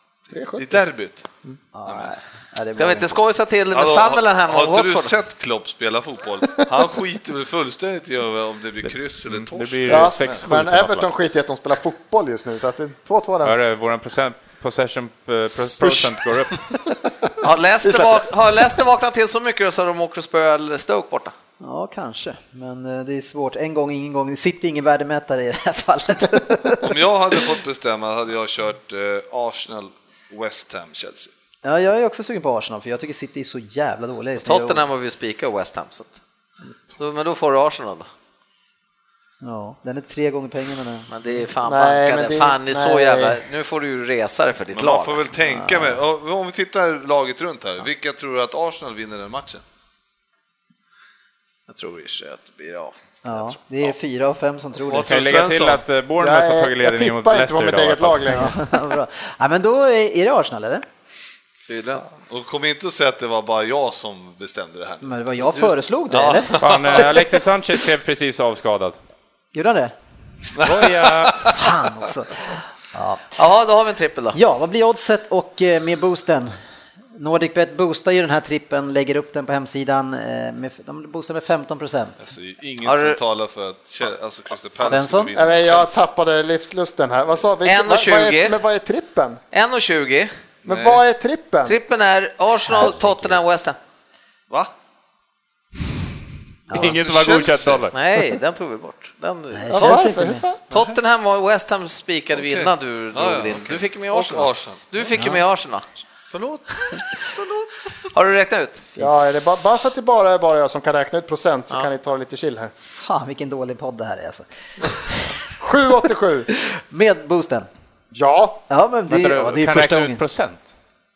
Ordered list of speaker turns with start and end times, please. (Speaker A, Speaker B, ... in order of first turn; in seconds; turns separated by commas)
Speaker A: 0.3-0.8, Speaker B: 0.5-1.3, Speaker C: 1.7-3.2, Speaker B: 1.9-2.1, Speaker D: 2.7-5.1, Speaker B: 3.7-10.5, Speaker E: 8.8-11.1, Speaker A: 9.9-13.6, Speaker E: 13.4-16.7, Speaker A: 15.6-16.1, Speaker D: 17.4-21.3, Speaker A: 17.8-18.3, Speaker C: 21.6-27.4, Speaker B: 26.8-31.3, Speaker C: 31.6-34.8, Speaker D: 34.4-36.1, Speaker D: 37.0-38.1, Speaker C: 39.4-41.1, Speaker D: 41.1-45.2, Speaker A: 41.6-43.4, Speaker B: 44.7-49.6, Speaker C: 45.4-46.0, Speaker D: 51.7-53.6, Speaker C: 53.2-55.1, Speaker B: 54.9-55.8, Speaker E: 55.0-58.5, Speaker A: 56.2-58.6, Speaker C: 58.2-60.8, Speaker D: 61.7-62.0, Speaker B: 62.3-67.3, Speaker C: 65.0-66.6, Speaker E: 66.6-69.0, Speaker C: 69.5-69.9, Speaker B: 70.6-71.5, Speaker E: 70.6-71.6, Speaker C: 71.5-73.2, Speaker D: 73.3-74.4, Speaker C: 74.3-76.5, Speaker C: 77.1-82.2, Speaker B: 82.2-86.0, Speaker D: 82.8-83.2, Speaker C: 84.8-85.3, Speaker A: 85.3-89.4, Speaker D: 87.6-88.6, Speaker D: 89.5-90.3, Speaker B: 90.6-91.0, Speaker A: 90.7-91.8, Speaker D: 91.6-93.8, Speaker C: 92.7-93.1, Speaker C: 96.7-97.0, Speaker E: 96.7-97.9, Speaker B: 96.8-97.9, Speaker D: 97.9-107.1, Speaker C: 99.5-100.4, Speaker A: 99.7-100.6, Speaker B: 102.4-104.8, Speaker D: 108.1-108.9, Speaker A: 109.0-112.7, Speaker C: 112.9-115.4, Speaker A: 115.6-116.5, Speaker C: 116.5-117.7, Speaker A: 118.1-118.6, Speaker C: 118.7-120.2, Speaker E: 119.1-120.7